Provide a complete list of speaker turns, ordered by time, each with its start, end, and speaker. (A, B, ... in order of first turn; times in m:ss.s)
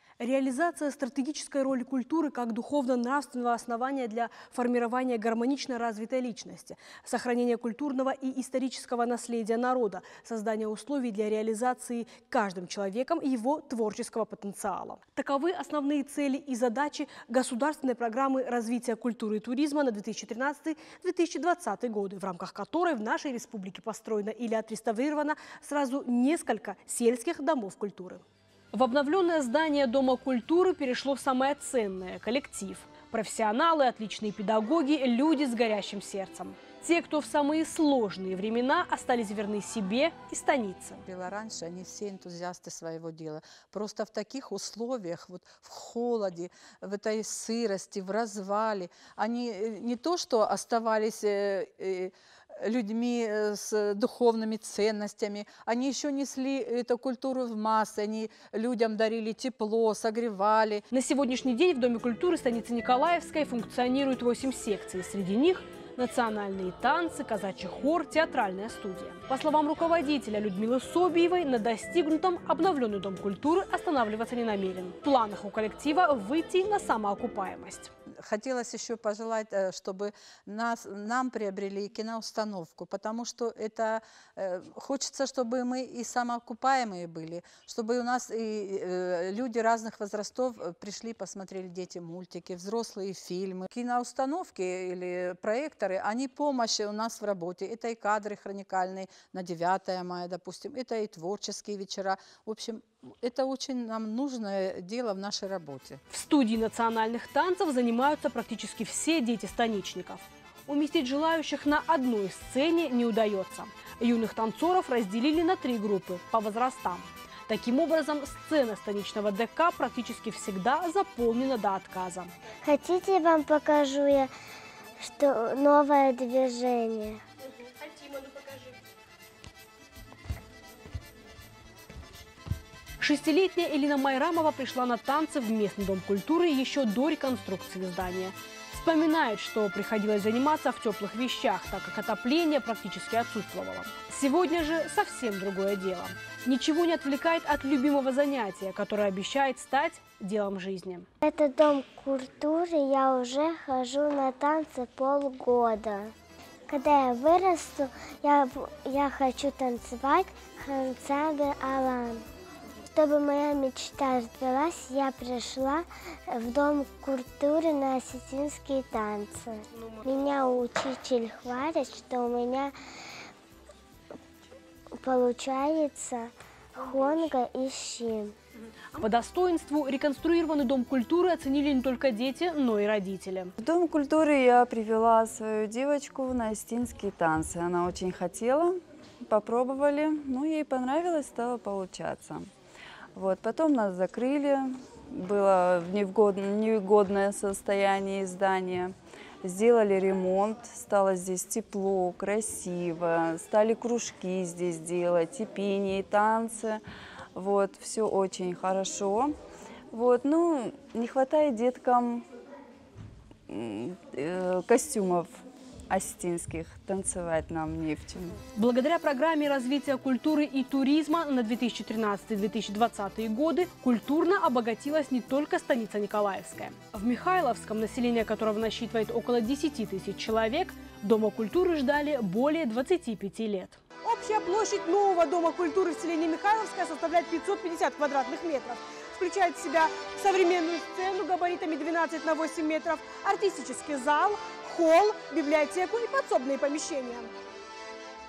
0:00.2-0:41.0 A
0:41.1-1:00.8 B
1:00.9-1:17.9 A
1:18.2-1:46.0 B
1:46.1-2:02.3 A
2:02.6-2:04.3 C
2:05.0-2:07.2 C
2:08.1-2:08.4 A
2:13.0-2:31.1 A
2:31.2-2:36.1 C
2:36.7-2:42.2 C
2:42.9-2:52.7 C
2:55.0-2:58.3 C
2:59.0-3:03.5 A
3:03.6-3:12.5 D
3:13.2-3:26.8 D
3:27.3-3:29.3 D
3:29.9-3:32.2 D
3:33.5-3:35.3 D
3:35.9-3:38.4 D
3:38.6-4:07.3 A